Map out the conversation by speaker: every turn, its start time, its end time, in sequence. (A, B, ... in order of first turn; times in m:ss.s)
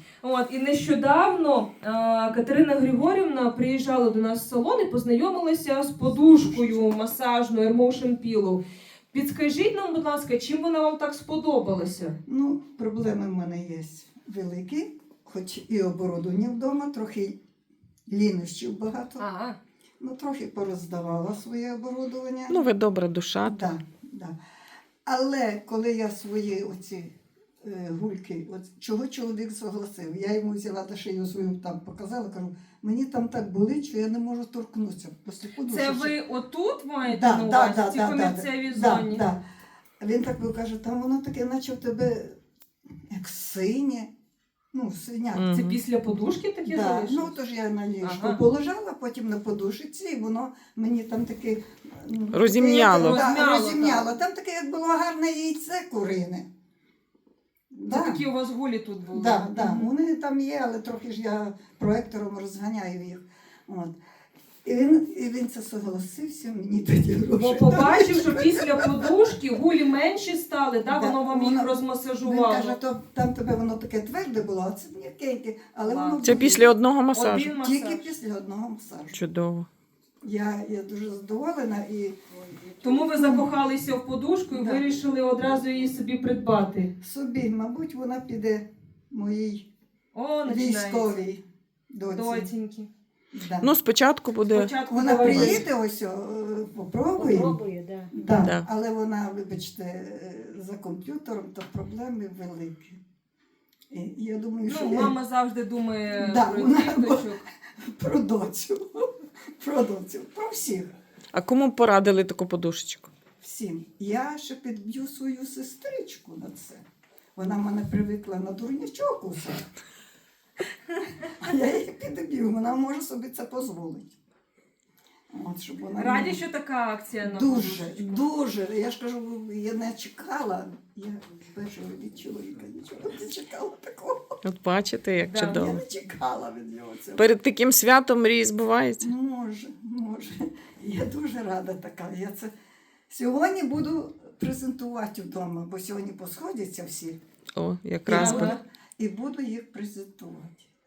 0:00.2-0:12.2 A
0:06.4-0:06.7 B
0:12.2-0:17.4 B
0:18.1-0:19.2 B
0:19.2-0:19.6 A
0:20.0-0:22.6 B
0:22.5-0:23.7 C
0:23.4-0:24.3 B
0:25.0-0:36.2 B
0:35.7-0:39.2 A
0:37.0-0:39.4 B
0:40.0-0:42.4 B
0:43.1-0:44.1 B
0:44.7-0:45.6 B
0:45.3-0:45.7 C
0:45.5-0:47.4 A
0:46.6-0:56.4 B
0:48.0-0:48.4 A
0:52.3-0:53.2 C
0:52.9-0:54.1 A
0:57.7-0:58.2 B
0:57.9-0:59.9 A
0:59.1-1:04.0 B
1:04.6-1:08.9 B
1:07.4-1:12.8 A
1:10.9-1:16.7 B
1:15.8-1:16.5 A
1:16.2-1:17.5 C
1:17.1-1:18.1 A
1:17.6-1:19.2 B
1:19.1-1:19.7 C
1:20.2-1:22.2 B
1:22.8-1:23.5 B
1:22.8-1:26.9 A
1:24.5-1:24.9 B
1:27.0-1:29.7 B
1:30.1-1:31.1 A
1:30.4-1:32.5 B
1:32.1-1:32.9 A
1:33.3-1:33.7 B
1:33.6-1:35.6 C
1:34.4-1:35.6 A
1:34.8-1:37.6 B
1:37.2-1:38.1 A
1:38.1-1:43.0 B
1:43.9-1:45.1 B
1:44.6-1:47.4 A
1:46.2-1:50.9 B
1:51.3-1:53.1 C
1:53.4-1:56.8 B
1:57.4-1:59.7 B
2:01.2-2:04.1 B
2:05.3-2:06.4 B
2:06.0-2:08.2 A
2:07.2-2:14.4 B
2:14.4-2:15.8 C
2:15.2-2:15.7 A
2:15.5-2:17.3 B
2:17.2-2:19.1 C
2:19.0-2:22.5 B
2:23.1-2:27.2 B
2:27.6-2:28.6 C
2:28.0-2:30.7 B
2:28.1-2:28.6 A